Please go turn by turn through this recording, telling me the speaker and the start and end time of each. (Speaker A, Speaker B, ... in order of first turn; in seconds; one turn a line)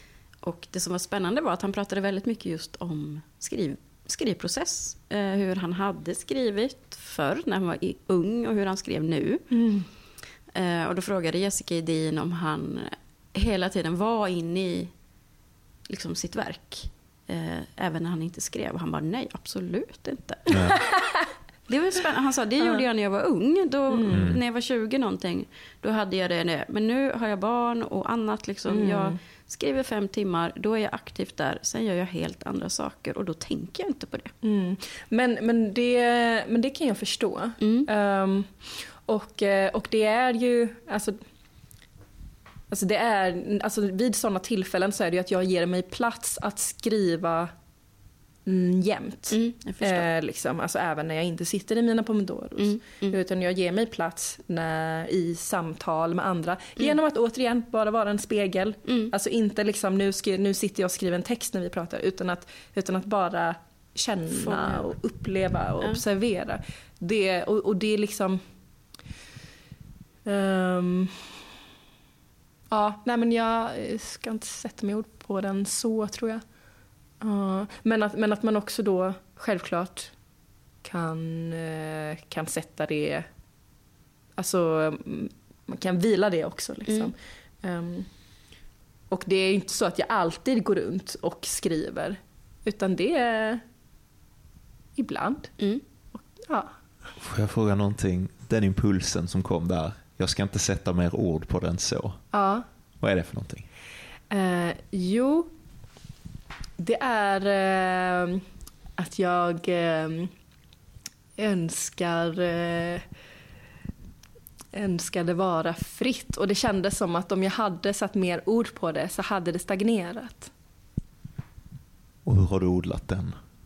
Speaker A: 0.4-9.6
Speaker B: 9.5-9.9
Speaker A: 10.5-14.9
Speaker A: 15.9-20.8
Speaker C: 20.5-20.8
Speaker B: 20.9-21.2
Speaker A: 21.7-34.3
Speaker B: 23.9-24.3
Speaker C: 24.1-24.4
Speaker B: 28.7-29.2
Speaker B: 34.4-41.2
Speaker A: 37.6-37.9
Speaker B: 42.7-47.5
Speaker B: 48.5-68.4
Speaker A: 49.3-50.1
Speaker A: 52.6-53.2
Speaker A: 64.3-64.9
Speaker B: 70.3-71.2
Speaker B: 72.7-76.4
Speaker B: 77.2-80.1
Speaker B: 80.8-83.3
Speaker B: 84.4-88.1
Speaker B: 89.1-93.6
Speaker B: 95.0-95.5
Speaker B: 96.2-96.7
Speaker C: 97.2-102.2
Speaker B: 102.3-102.7
Speaker C: 103.0-103.7
Speaker B: 104.3-105.5
Speaker B: 106.8-108.4
Speaker B: 109.0-110.3
Speaker B: 111.4-113.1
Speaker B: 114.7-120.5
Speaker C: 122.2-123.4